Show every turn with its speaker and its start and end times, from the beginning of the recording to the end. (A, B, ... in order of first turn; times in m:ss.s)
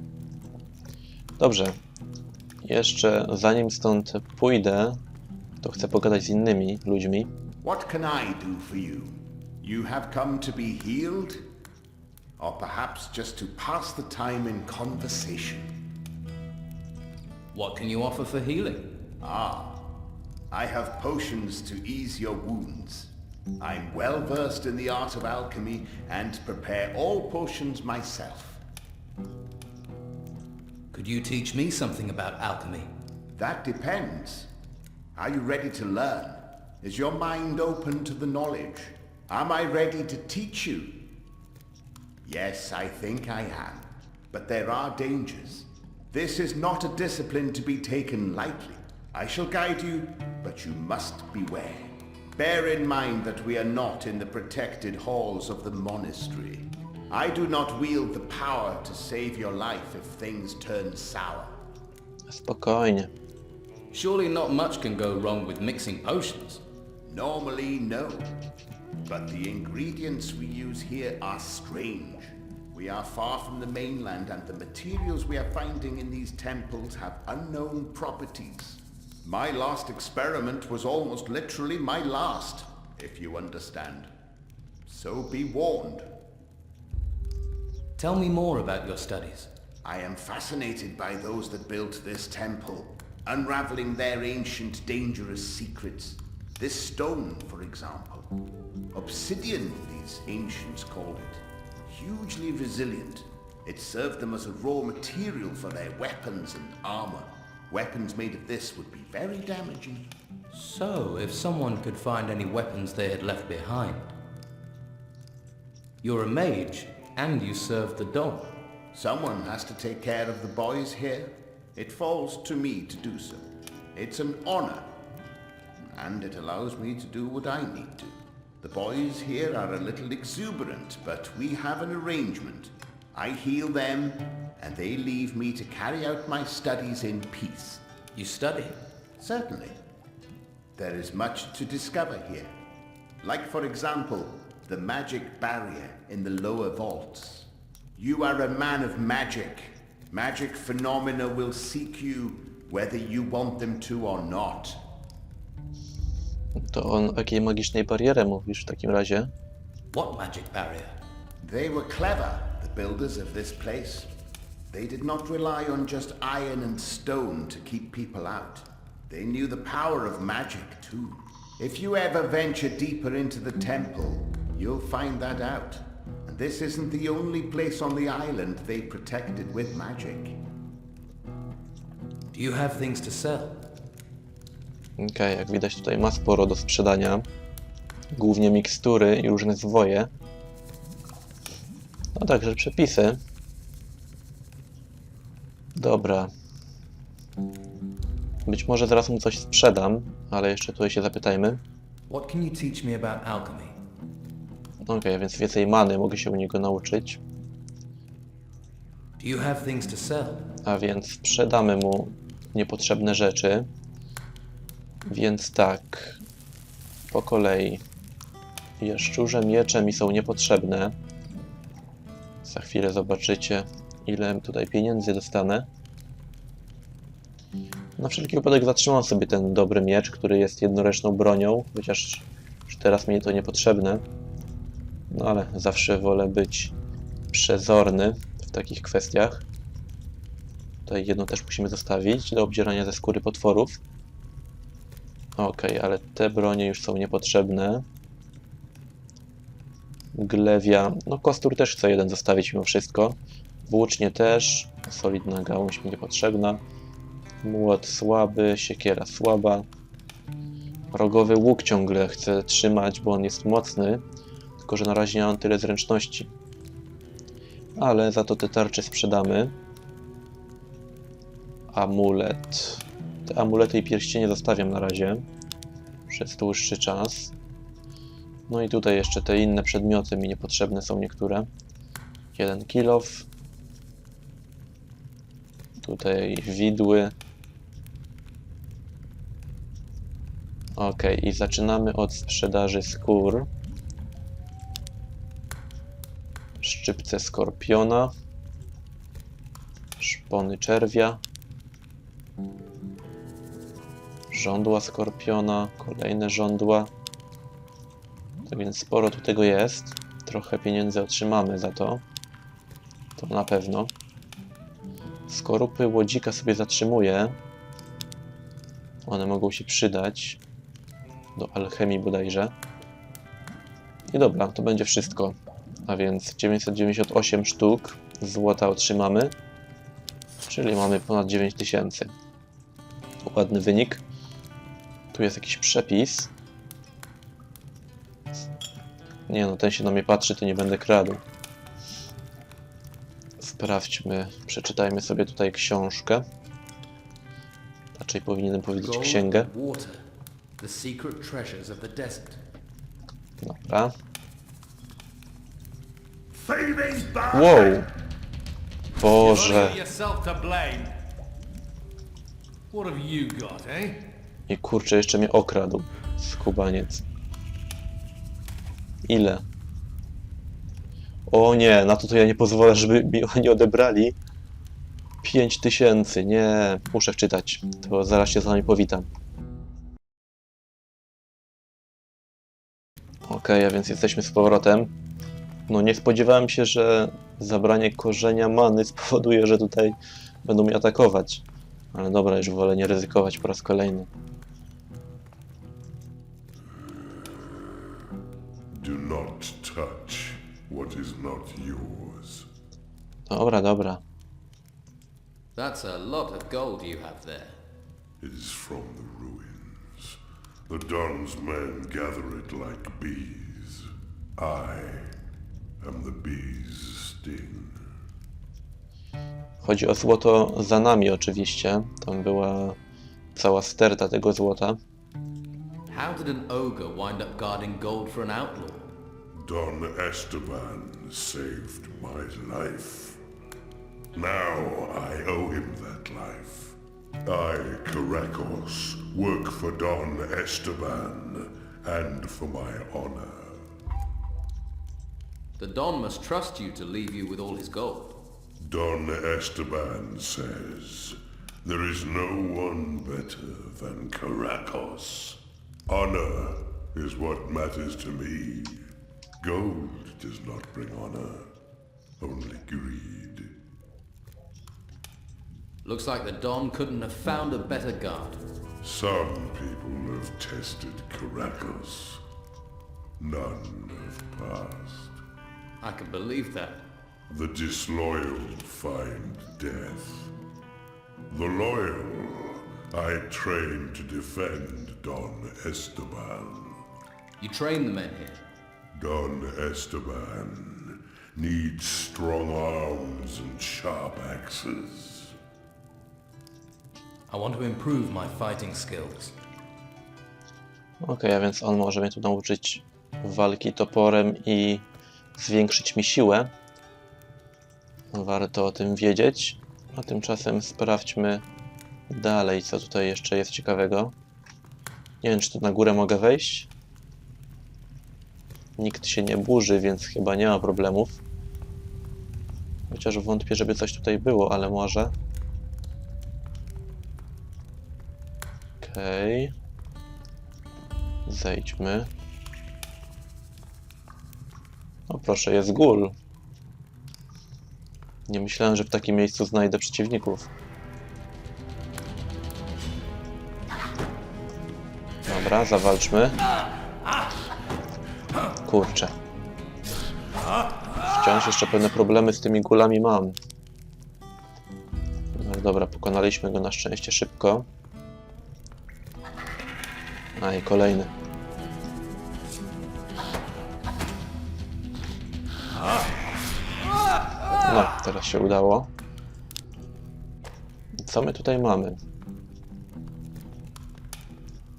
0:01.4-0:01.8 A
0:02.6-0:05.0 A
0:05.6-0:07.3 A
0:07.6-0:11.4 B
0:12.4-0:15.7 B
0:17.5-0:18.9 C
0:19.2-0:19.9 B
0:20.5-0:28.6 B
0:30.9-0:32.9 C
0:33.3-0:34.5 B
0:35.2-0:41.0 B
0:42.2-1:01.6 B
1:02.3-1:03.1 A
1:03.9-1:06.6 C
1:07.0-1:08.3 B
1:09.0-1:24.1 B
1:24.9-1:26.1 B
1:28.0-1:29.5 C
1:29.8-1:38.3 B
1:38.9-1:50.1 B
1:50.5-1:54.1 C
1:56.0-1:58.5 C
1:58.9-2:04.9 B
2:05.9-2:17.8 B
2:18.1-2:18.8 C
2:19.2-2:19.8 B
2:20.8-2:22.5 B
2:23.2-2:34.8 B
2:36.6-2:39.3 A
2:39.9-2:41.0 C
2:41.4-2:44.1 B
2:44.7-3:00.4 B
3:02.3-3:03.6 C
3:05.0-3:07.3 A
3:08.1-3:10.1 A
3:12.1-3:13.2 A
3:15.7-3:16.3 A
3:18.4-3:21.6 A
3:22.1-3:23.8 C
3:24.8-3:27.2 A
3:29.2-3:30.5 C
3:30.6-3:33.7 A
3:35.0-3:36.2 A
3:37.1-3:37.8 A
3:38.8-3:41.0 A
3:42.4-3:45.7 A
3:48.0-3:54.0 A
3:55.1-3:56.7 A
3:57.3-3:59.4 A
4:00.8-4:03.8 A
4:05.4-4:07.8 A
4:10.1-4:16.6 A
4:17.4-4:19.7 A
4:20.9-4:24.0 A
4:24.6-4:26.3 A
4:27.8-4:29.5 A
4:31.7-4:35.2 A
4:36.1-4:37.3 A
4:38.5-4:41.5 A
4:42.3-4:43.3 A
4:45.8-4:47.1 A
4:50.7-4:53.5 A
4:56.6-4:58.1 A
5:00.0-5:01.2 A
5:04.3-5:06.9 A
5:08.4-5:12.0 A
5:13.2-5:13.9 A
5:15.3-5:17.4 A
5:19.0-5:20.4 A
5:21.3-5:22.5 A
5:24.1-5:29.3 A
5:30.4-5:32.1 A
5:33.2-5:34.0 A
5:35.1-5:36.3 A
5:39.3-5:41.2 A
5:43.4-5:46.2 A
5:47.9-5:49.5 A
5:48.8-5:50.0 C
5:50.6-5:52.4 C
5:53.4-5:53.9 A
5:56.5-5:57.5 D
5:57.3-5:57.9 A
5:59.0-5:59.8 A
5:59.0-6:00.9 D
6:02.7-6:04.0 D
6:04.5-6:07.0 A
6:09.0-6:09.4 A
6:11.3-6:14.2 A
6:15.2-6:19.1 A
6:23.2-6:24.9 A
6:25.7-6:34.1 A
6:38.7-6:42.5 E
6:43.3-6:44.0 A
6:45.6-6:47.6 C
6:48.2-6:55.1 E
6:55.8-6:57.8 E
6:59.6-7:02.8 A
7:03.3-7:04.8 A
7:05.9-7:08.9 C
7:09.3-7:13.2 E
7:14.1-7:23.6 E
7:25.6-7:28.2 C
7:28.6-7:38.8 E
7:39.4-7:41.5 E
7:42.2-7:43.5 E
7:45.8-7:48.4 C
7:48.8-7:52.2 E
7:53.2-7:55.2 E
7:55.8-7:56.8 C
7:57.3-8:00.3 E
8:01.3-8:06.8 E
8:07.4-8:08.4 C
8:08.9-8:15.3 E
8:17.3-8:19.4 C
8:21.0-8:26.5 A
8:28.1-8:31.4 A
8:32.1-8:34.1 A
8:35.2-8:36.7 A
8:38.8-8:41.2 A
8:42.9-8:45.1 A
8:48.8-8:49.5 A
8:51.2-8:52.1 A
8:55.1-8:56.1 A
8:58.3-9:00.5 A
9:05.2-9:06.4 A
9:08.6-9:09.1 A
9:11.0-9:13.4 A
9:15.3-9:17.7 A
9:20.4-9:21.1 A
9:27.6-9:28.9 A
9:30.9-9:32.0 A